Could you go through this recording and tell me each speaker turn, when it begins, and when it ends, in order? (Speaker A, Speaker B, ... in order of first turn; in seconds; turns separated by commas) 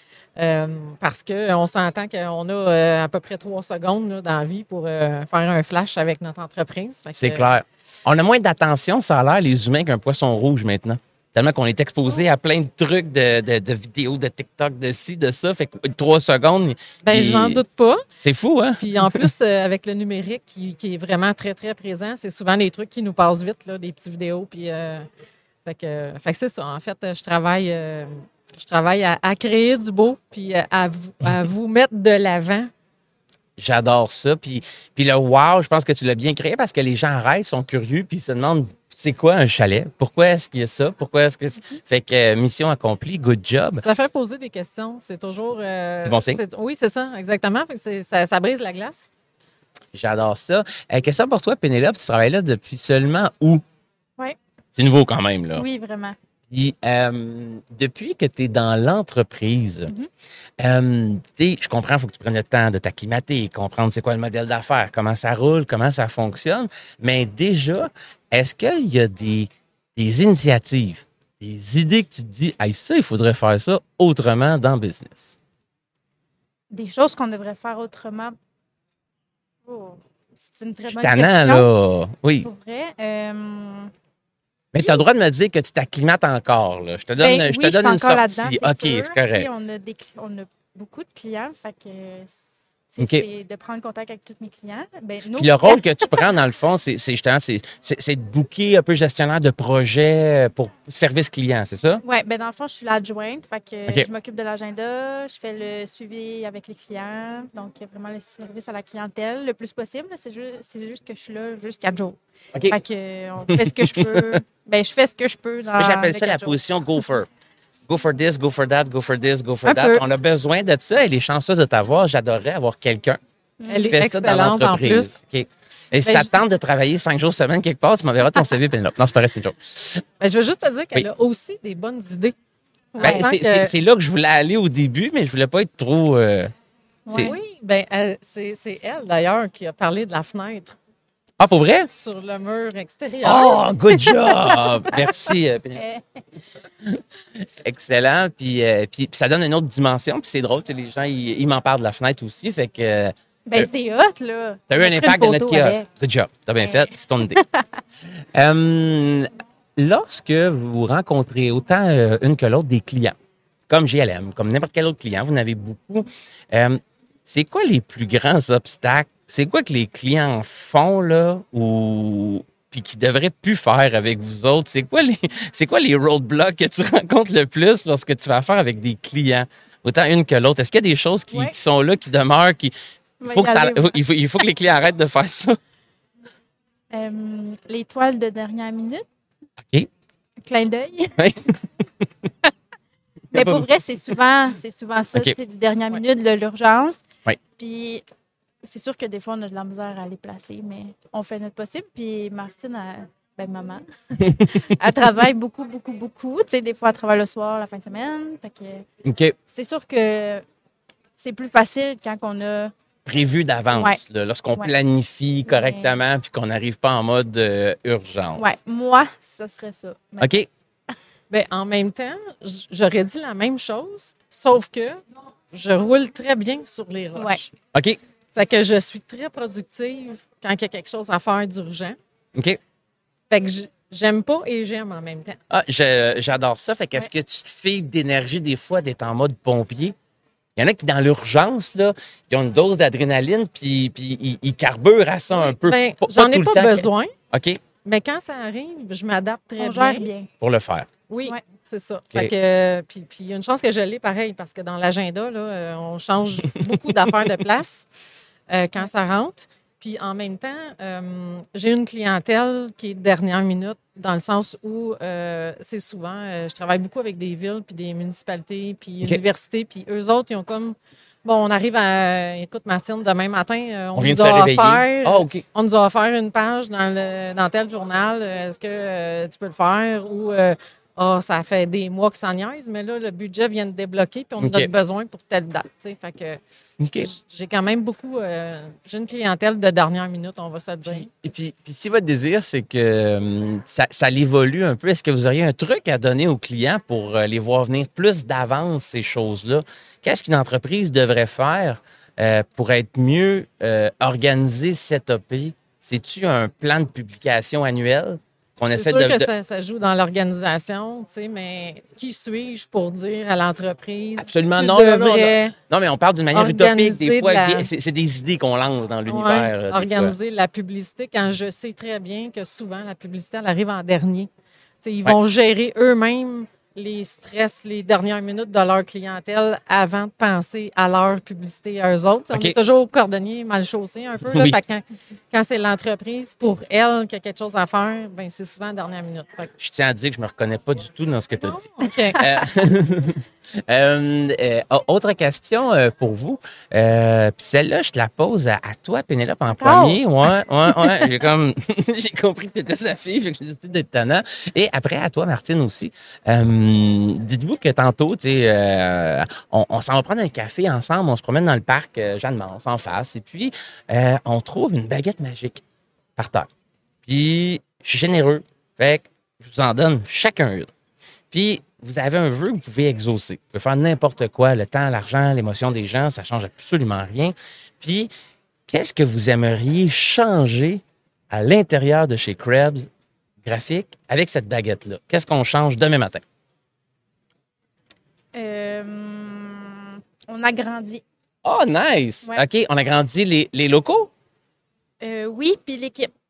Speaker A: 0.4-7.6, Speaker B: 7.2-17.6, Speaker A: 17.0-18.1, Speaker B: 18.2-19.3, Speaker A: 18.8-25.1, Speaker A: 25.6-32.7, Speaker B: 33.6-43.8, Speaker A: 43.8-49.1, Speaker B: 46.0-46.4, Speaker B: 49.9-53.6, Speaker B: 54.8-55.6, Speaker C: 55.6-56.2, Speaker B: 56.5-59.9, Speaker B: 60.6-75.4, Speaker C: 76.7-78.4, Speaker C: 79.7-81.7, Speaker B: 80.9-82.5, Speaker C: 82.4-83.9, Speaker B: 84.7-89.5, Speaker C: 87.2-92.4, Speaker C: 92.9-96.2, Speaker B: 93.0-93.2, Speaker B: 95.4-102.0, Speaker C: 102.0-116.6, Speaker B: 113.5-114.4, Speaker B: 115.8-117.3, Speaker B: 117.9-123.2, Speaker C: 119.7-120.0, Speaker C: 123.6-124.0, Speaker A: 123.7-125.2, Speaker B: 123.9-130.0, Speaker A: 126.1-126.4, Speaker A: 130.2-132.3, Speaker A: 132.9-133.7, Speaker B: 133.0-136.5, Speaker C: 137.1-137.4, Speaker B: 137.1-137.3, Speaker A: 137.2-140.8, Speaker B: 141.4-141.9, Speaker A: 141.5-144.7, Speaker B: 143.2-145.8, Speaker C: 145.8-146.0, Speaker B: 147.6-153.7, Speaker C: 153.5-155.9, Speaker B: 154.7-157.4, Speaker C: 156.6-157.6, Speaker B: 158.3-163.2, Speaker B: 163.7-182.7, Speaker C: 183.2-184.0, Speaker B: 183.3-185.6, Speaker C: 186.9-189.1, Speaker B: 189.6-189.9, Speaker C: 190.4-191.5, Speaker B: 191.2-191.5, Speaker C: 193.3-197.0, Speaker B: 193.3-193.7, Speaker C: 197.6-198.0, Speaker C: 198.6-203.8, Speaker B: 204.2-204.6, Speaker C: 204.4-208.8, Speaker B: 209.1-209.4, Speaker C: 209.5-210.4, Speaker C: 211.2-212.7, Speaker B: 213.1-218.6, Speaker C: 213.7-214.0, Speaker C: 215.5-216.0, Speaker C: 218.4-220.4, Speaker B: 220.2-220.5, Speaker A: 221.3-225.0, Speaker A: 225.5-227.5, Speaker C: 227.2-227.4, Speaker B: 227.7-228.0, Speaker A: 228.3-232.0, Speaker A: 233.3-235.4, Speaker B: 235.5-239.9, Speaker B: 240.6-247.6, Speaker A: 245.5-247.1, Speaker A: 247.8-250.1, Speaker C: 249.6-250.3, Speaker B: 250.4-250.9, Speaker A: 251.1-257.9, Speaker A: 258.5-286.4, Speaker B: 273.9-275.4, Speaker B: 284.4-284.7, Speaker B: 286.8-287.1, Speaker A: 287.0-291.1, Speaker B: 290.9-309.3, Speaker A: 308.7-315.6, Speaker B: 314.2-320.1, Speaker A: 316.3-317.7, Speaker A: 319.1-324.3, Speaker A: 324.8-339.5, Speaker B: 334.3-334.6, Speaker B: 339.6-365.6, Speaker A: 341.4-342.2, Speaker C: 349.5-350.0, Speaker C: 350.8-351.1, Speaker B: 366.2-366.5, Speaker B: 367.1-370.7, Speaker B: 371.3-378.1, Speaker B: 378.7-382.9, Speaker B: 383.4-386.2, Speaker C: 388.3-391.0, Speaker B: 391.4-394.1, Speaker C: 395.0-396.1